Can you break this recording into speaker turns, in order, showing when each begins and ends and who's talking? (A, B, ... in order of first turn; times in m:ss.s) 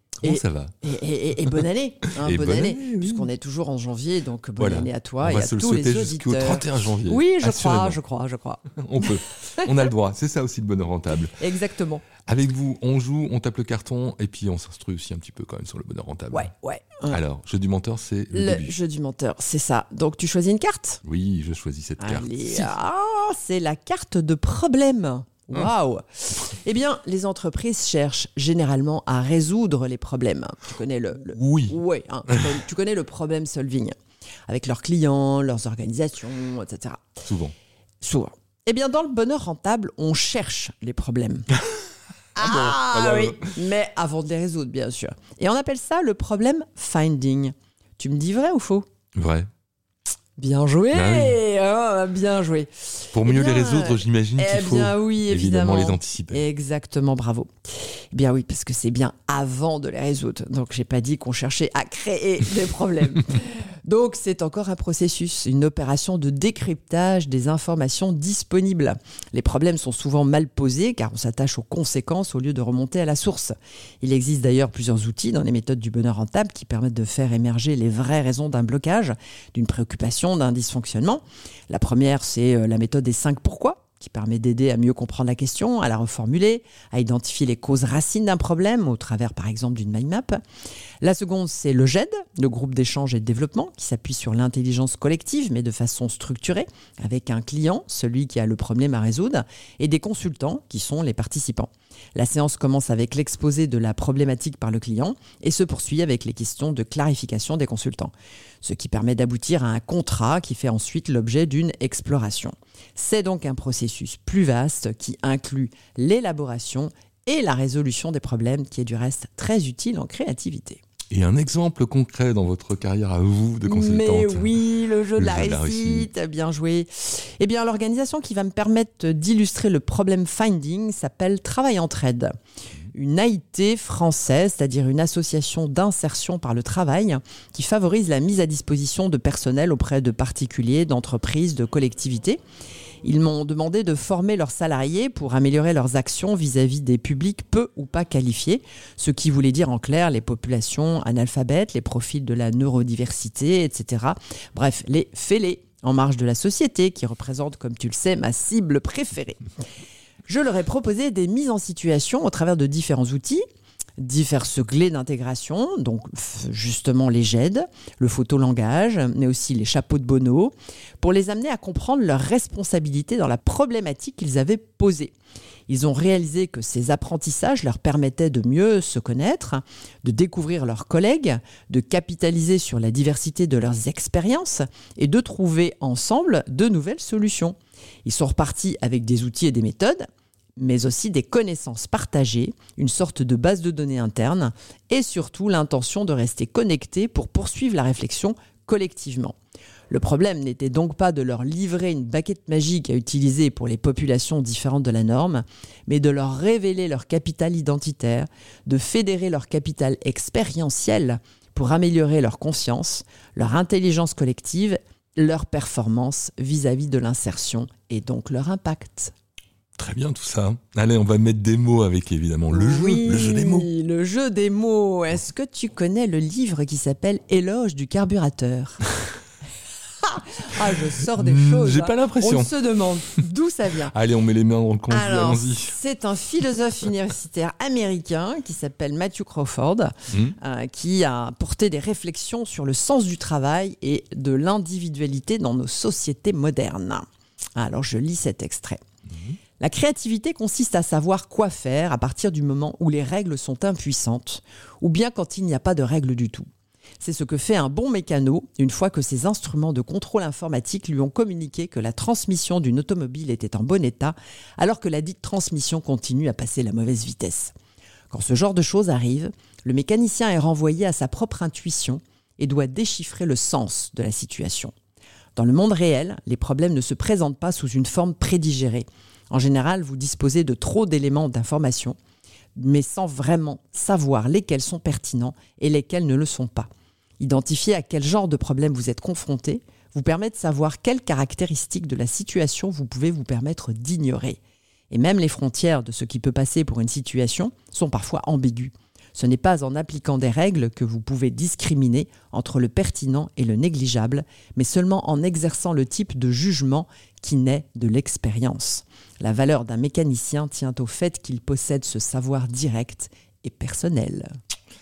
0:00.2-0:00.8 A
0:00.2-0:09.7 B
0:01.4-0:03.2 A
0:04.6-0:08.0 A
0:08.7-0:11.4 A
0:11.4-0:12.1 B
0:12.2-0:16.5 A
0:16.3-0:17.2 B
0:17.1-0:18.7 A
0:18.3-0:21.0 B
0:21.0-0:22.7 A
0:22.0-0:33.9 B
0:31.3-0:31.8 A
0:34.5-0:37.0 B
0:37.2-0:37.6 A
0:38.0-0:41.5 B
0:42.4-0:48.8 B
0:42.4-0:43.6 A
0:49.2-0:49.5 A
0:50.4-0:57.5 B
0:50.9-0:51.4 A
0:53.1-0:56.4 A
0:58.1-1:30.4 B
1:31.0-2:00.8 B
2:01.1-2:04.5 A
2:03.7-2:12.3 B
2:05.2-2:06.1 A
2:12.9-2:22.4 B
2:23.0-2:39.4 B
2:40.3-2:43.4 B
2:44.0-2:55.1 B
2:55.7-3:19.4 B
3:19.9-3:39.1 B
3:39.8-3:43.7 A
3:42.5-3:48.8 B
3:50.0-3:53.9 B
3:51.2-3:52.5 A
3:53.9-3:55.7 A
3:54.9-4:08.8 B
4:00.1-4:00.4 A
4:09.1-4:09.4 A
4:09.6-4:16.5 B
4:17.0-4:27.5 B
4:28.1-4:34.7 B
4:35.4-4:42.0 B
4:42.6-4:46.7 B
4:47.2-4:54.4 B
4:54.9-5:14.3 B